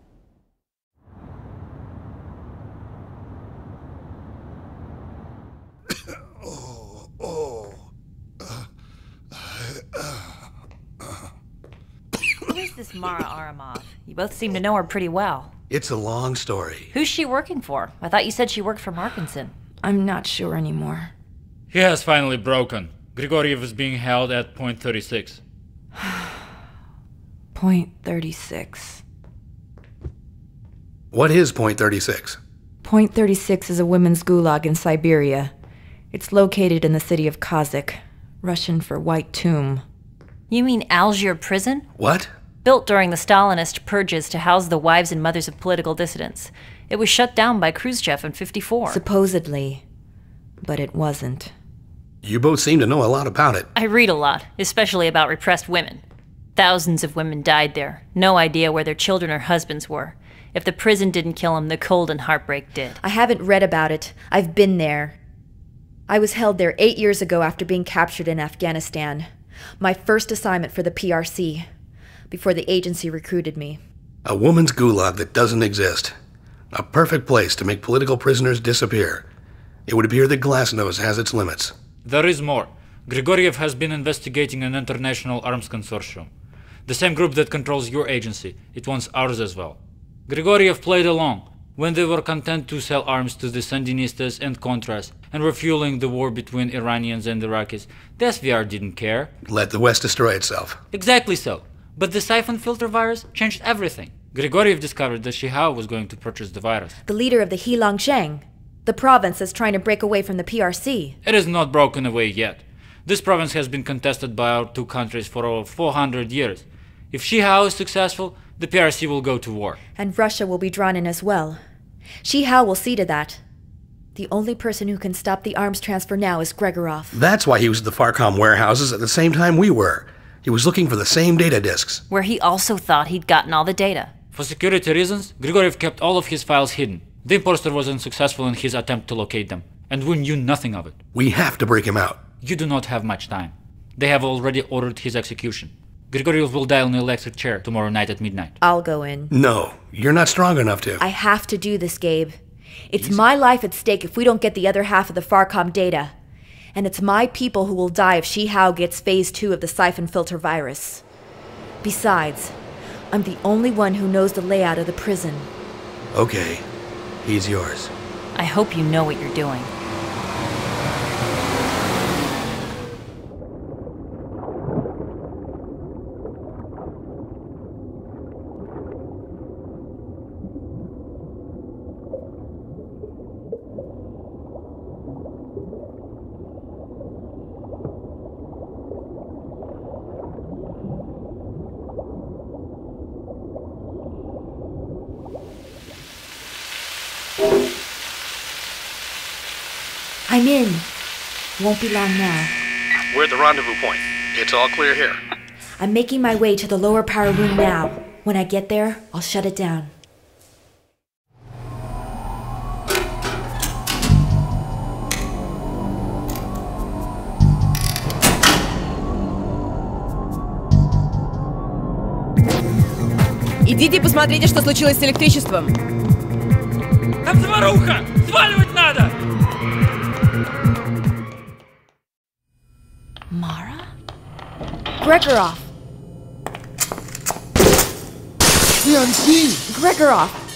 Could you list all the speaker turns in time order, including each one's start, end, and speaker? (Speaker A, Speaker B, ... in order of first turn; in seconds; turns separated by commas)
Speaker A: 6.4-7.8, Speaker A: 9.4-10.2, Speaker B: 12.5-15.5, Speaker C: 15.7-16.9, Speaker B: 16.9-19.5, Speaker D: 19.8-21.1, Speaker E: 21.7-25.4, Speaker D: 26.0-26.3, Speaker D: 27.5-29.0, Speaker C: 31.1-32.4, Speaker D: 32.8-35.5, Speaker D: 36.1-39.8, Speaker B: 40.5-41.9, Speaker C: 42.0-42.3, Speaker B: 42.6-49.0, Speaker D: 48.9-49.8, Speaker D: 50.6-51.5, Speaker C: 52.2-53.7, Speaker B: 53.7-56.0, Speaker B: 56.5-63.0, Speaker D: 63.0-65.2, Speaker D: 66.1-69.3, Speaker D: 69.8-71.7, Speaker D: 72.3-73.8, Speaker C: 74.2-76.2, Speaker C: 76.7-79.2, Speaker C: 79.9-81.7, Speaker E: 82.0-86.3, Speaker E: 86.9-99.3, Speaker C: 99.5-100.8, Speaker E: 100.9-106.9, Speaker D: 107.0-111.2, Speaker E: 111.3-119.8, Speaker D: 120.0-121.6, Speaker D: 122.2-123.4, Speaker D: 124.1-127.2, Speaker C: 127.1-132.0, Speaker B: 132.1-134.1, Speaker E: 134.3-141.0, Speaker C: 141.1-142.2, Speaker E: 142.4-148.5, Speaker D: 148.6-149.3, Speaker C: 149.3-151.0, Speaker D: 151.0-152.4, Speaker D: 152.9-156.1, Speaker D: 156.7-161.0, Speaker D: 161.8-162.5, Speaker D: 163.1-165.5, Speaker C: 166.1-166.6, Speaker C: 167.2-167.9, Speaker B: 168.3-169.7, Speaker D: 200.3-200.8, Speaker D: 201.6-202.5, Speaker C: 203.1-205.2, Speaker D: 205.8-209.9, Speaker F: 223.6-225.8, Speaker E: 227.2-229.1, Speaker D: 233.3-233.9, Speaker D: 235.0-235.7, Speaker A: 238.8-239.6, Speaker D: 239.7-240.4